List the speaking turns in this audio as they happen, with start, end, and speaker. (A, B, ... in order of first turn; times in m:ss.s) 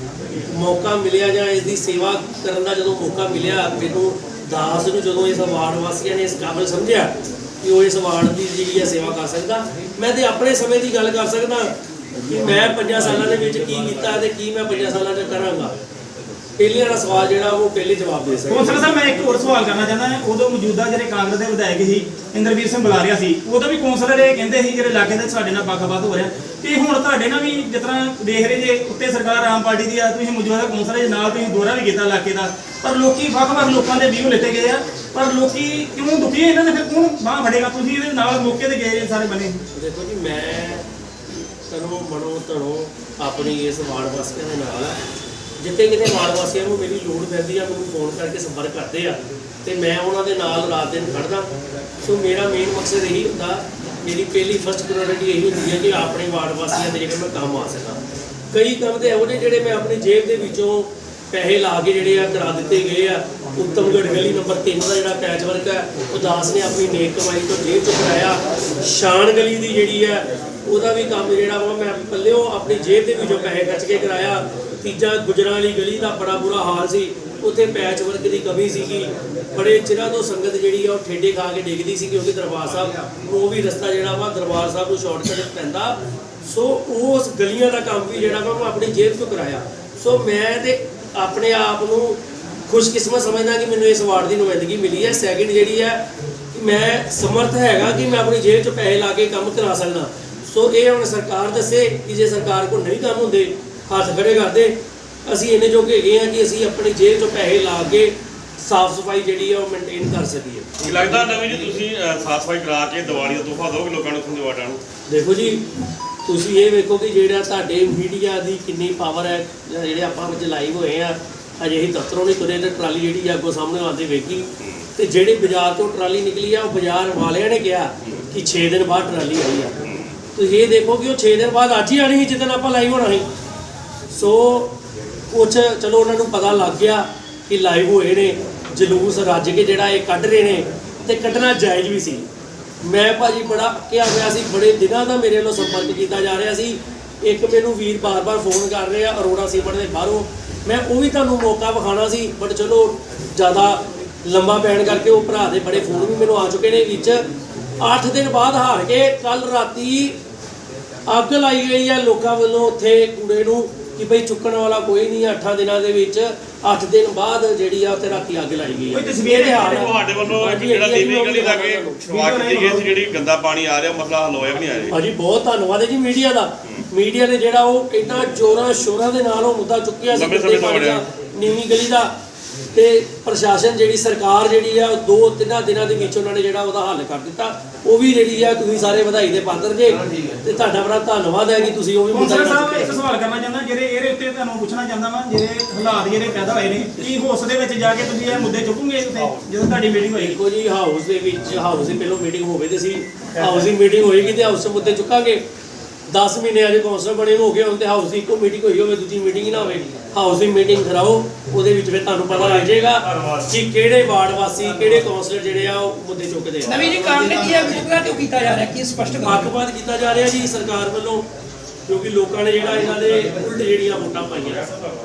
0:00.5-0:11.7 A
0:12.3-0:15.8 A
0:16.6-0:18.9 A
0:18.5-0:39.6 B
0:39.7-0:40.8 A
0:41.7-0:45.0 A
0:45.6-0:51.5 A
0:52.0-0:58.0 A
0:58.5-1:36.0 A
1:36.5-1:50.7 A
1:50.8-1:54.8 C
1:55.1-1:55.7 A
1:56.2-2:09.8 A
2:10.4-2:13.3 A
2:14.1-2:14.8 A
2:15.3-2:22.2 A
2:22.8-2:37.2 A
2:37.8-2:40.2 A
2:41.1-2:52.0 A
2:48.9-2:49.9 B
2:49.7-2:55.0 C
2:52.1-2:52.9 B
2:54.9-3:02.1 A
3:00.1-3:01.0 C
3:02.7-3:13.0 A
3:12.1-3:20.4 B
3:20.1-3:25.4 A
3:26.1-3:36.9 A
3:32.3-3:33.5 C
3:36.7-3:39.4 D
3:39.2-3:41.2 A
3:41.9-3:44.7 A